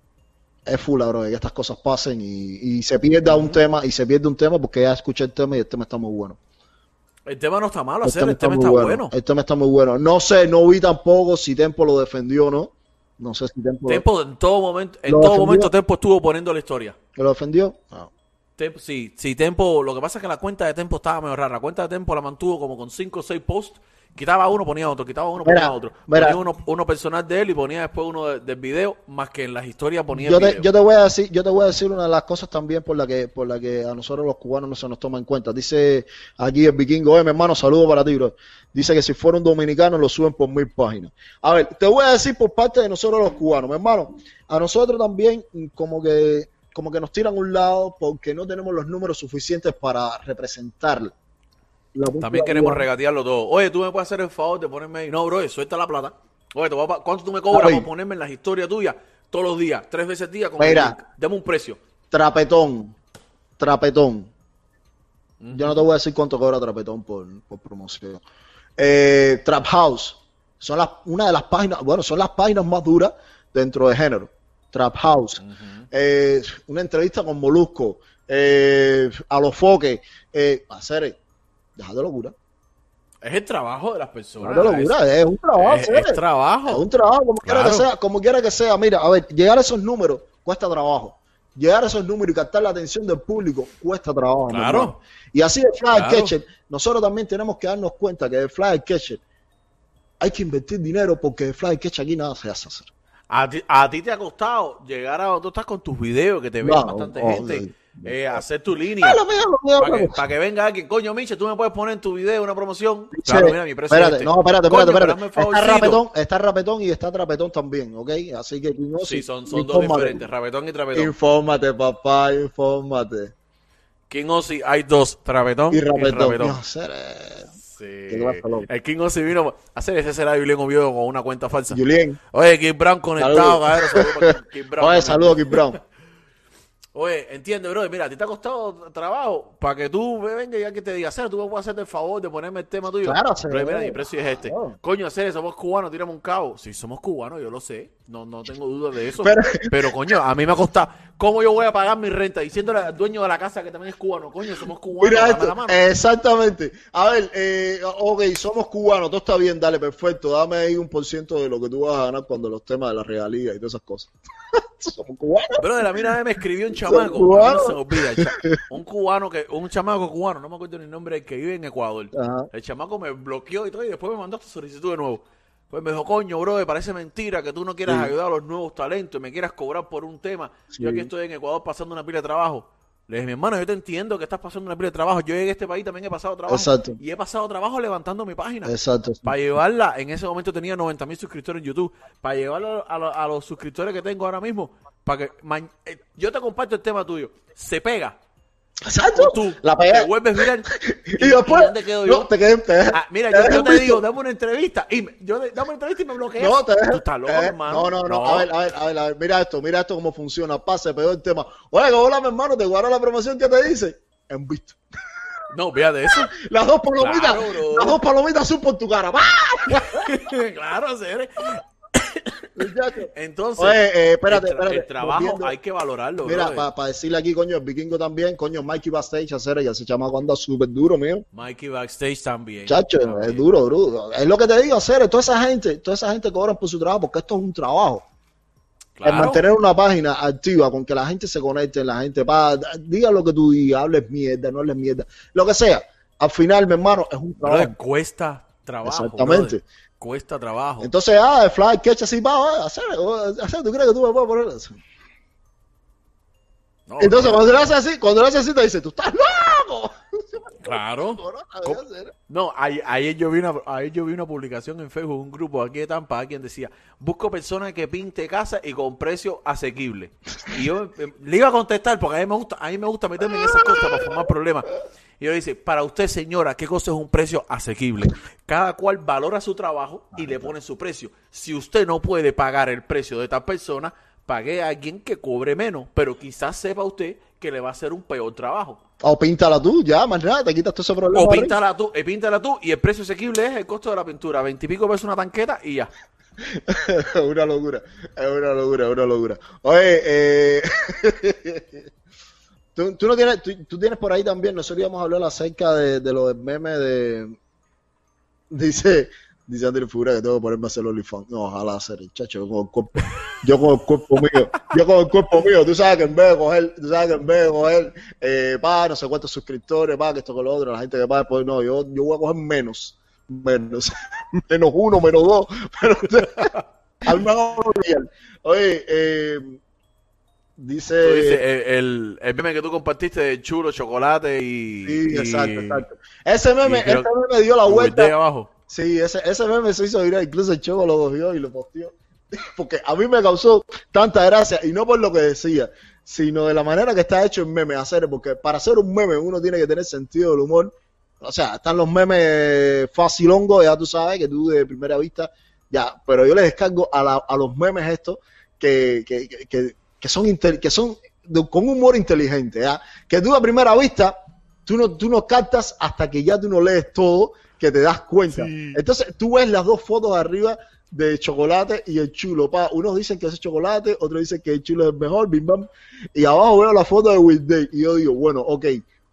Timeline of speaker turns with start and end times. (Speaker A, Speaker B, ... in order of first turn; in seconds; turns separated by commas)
Speaker A: 0.7-6.4, Speaker B: 3.2-3.6, Speaker B: 7.3-9.1, Speaker A: 8.0-14.0, Speaker B: 13.9-16.9, Speaker A: 15.1-15.7, Speaker A: 17.1-18.1, Speaker B: 18.6-30.7, Speaker A: 25.4-26.4, Speaker A: 30.1-51.1, Speaker A: 51.9-52.9, Speaker B: 52.2-61.8, Speaker A: 57.5-57.9, Speaker A: 60.6-61.0, Speaker A: 62.1-62.9, Speaker A: 63.6-64.3, Speaker B: 65.4-65.8, Speaker A: 65.5-68.2, Speaker A: 68.8-75.4, Speaker B: 75.4-75.9, Speaker A: 75.9-81.2, Speaker A: 81.8-82.3, Speaker B: 83.2-85.0, Speaker A: 84.4-99.2, Speaker B: 85.6-86.8, Speaker B: 87.4-87.9, Speaker B: 94.5-95.0, Speaker B: 95.9-96.3, Speaker A: 100.2-102.9, Speaker B: 103.3-109.2, Speaker A: 106.6-108.4, Speaker A: 109.0-110.2, Speaker B: 109.8-116.0, Speaker A: 113.1-120.2, Speaker B: 119.0-121.1, Speaker A: 120.9-123.3, Speaker B: 124.1-126.6, Speaker A: 125.7-127.5, Speaker B: 127.6-131.8, Speaker A: 128.1-128.7, Speaker A: 131.7-132.2, Speaker B: 132.3-135.6, Speaker A: 133.2-134.1, Speaker A: 134.8-135.8, Speaker B: 136.9-155.8, Speaker A: 143.0-144.8, Speaker A: 149.2-149.9, Speaker A: 155.0-165.8, Speaker B: 165.6-198.2, Speaker A: 166.8-168.6, Speaker A: 172.1-172.5, Speaker A: 177.8-178.1, Speaker A: 180.7-181.1, Speaker A: 186.5-187.0, Speaker A: 188.6-189.3, Speaker A: 198.8-204.0, Speaker B: 199.1-202.3, Speaker B: 202.9-208.5, Speaker A: 206.4-214.8, Speaker B: 215.5-216.3, Speaker A: 216.1-220.1, Speaker B: 217.0-218.0, Speaker B: 219.7-222.5, Speaker A: 222.6-225.5, Speaker B: 223.1-226.7, Speaker A: 226.2-231.2, Speaker B: 231.3-233.5, Speaker A: 232.7-238.1, Speaker B: 239.0-239.4, Speaker A: 239.0-247.7, Speaker B: 247.4-250.9, Speaker A: 248.8-249.6, Speaker A: 250.8-254.8, Speaker B: 256.9-257.7, Speaker A: 257.0-262.1, Speaker B: 260.6-288.8, Speaker A: 273.4-274.1, Speaker A: 280.1-280.5, Speaker A: 289.0-291.5, Speaker B: 291.1-295.9, Speaker A: 296.4-301.9, Speaker A: 302.8-307.4, Speaker A: 308.5-326.5, Speaker B: 326.2-326.6, Speaker A: 327.0-329.6, Speaker A: 330.6-331.4, Speaker B: 331.0-335.8, Speaker A: 334.9-338.1, Speaker B: 336.6-337.1, Speaker B: 337.6-338.5, Speaker A: 338.7-364.1, Speaker A: 364.6-378.8, Speaker B: 368.3-368.8